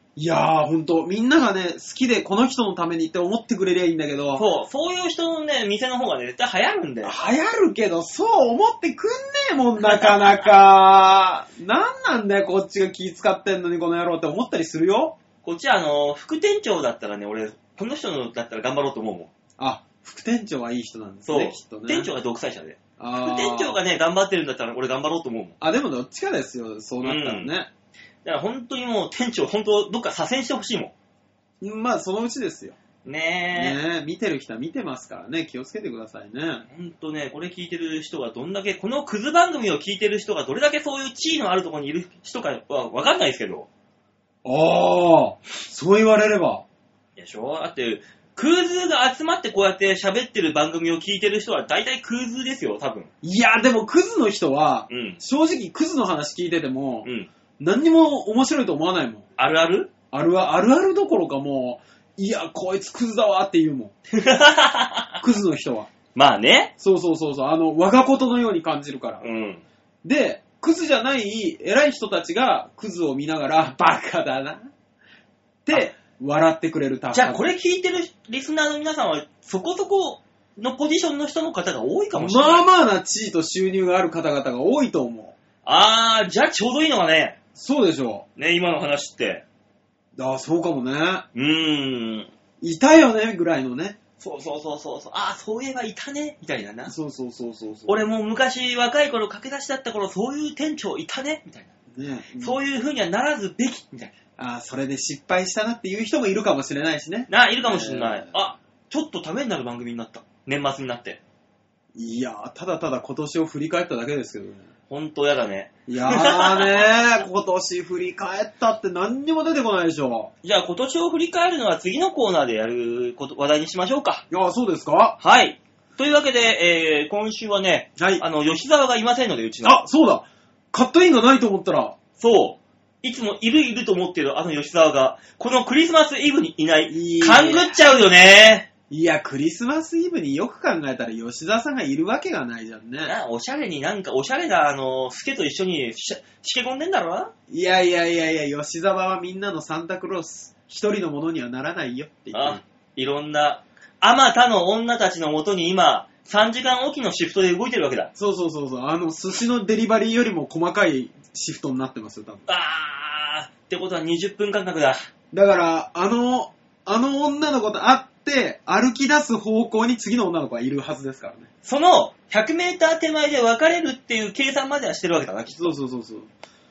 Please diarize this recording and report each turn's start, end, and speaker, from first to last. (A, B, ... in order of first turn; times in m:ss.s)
0:00.2-0:04.4 A
0:04.4-0:07.1 B
0:07.0-0:15.2 A
0:15.4-0:19.3 B
0:19.6-0:22.1 A
0:21.3-0:25.6 B
0:23.0-0:23.8 A
0:25.6-0:27.7 A
0:27.0-0:27.5 B
0:28.2-0:30.9 B
0:31.6-0:32.8 A
0:33.0-0:33.8 B
0:33.6-0:36.7 A
0:36.7-0:43.7 B
0:44.4-0:46.6 A
0:47.2-0:53.1 B
0:53.2-0:59.3 A
0:54.9-0:55.2 B
0:57.0-0:57.3 B
0:59.4-0:59.9 B
1:00.1-1:03.9 A
1:04.1-1:05.2 B
1:05.2-1:05.9 A
1:06.2-1:06.7 B
1:06.8-1:09.2 A
1:09.2-1:09.6 B
1:10.0-1:14.6 A
1:15.7-1:17.5 A
1:15.7-1:16.0 B
1:17.1-1:22.6 B
1:22.2-1:25.4 A
1:25.6-1:27.4 B
1:27.6-1:28.2 A
1:28.4-1:29.4 B
1:30.2-1:31.3 A
1:31.3-1:32.3 B
1:32.6-1:34.0 A
1:34.2-1:36.9 B
1:36.9-1:38.0 A
1:37.9-1:41.7 B
1:41.9-1:42.6 A
1:42.4-1:44.1 B
1:44.4-1:48.3 A
1:47.3-1:51.2 B
1:52.0-1:54.7 A
1:54.9-1:56.9 B
1:55.9-2:00.3 A
2:00.4-2:04.2 B
2:04.3-2:05.2 A
2:05.2-2:09.8 B
2:08.0-2:08.2 A
2:09.6-2:12.0 A
2:12.2-2:18.7 B
2:16.9-2:17.8 A
2:18.9-2:23.2 A
2:23.0-2:27.3 B
2:27.5-2:32.6 A
2:32.3-2:38.1 B
2:38.2-2:42.4 A
2:42.5-2:45.0 B
2:45.3-2:51.5 A
2:51.6-2:55.8 B
2:55.5-2:56.3 A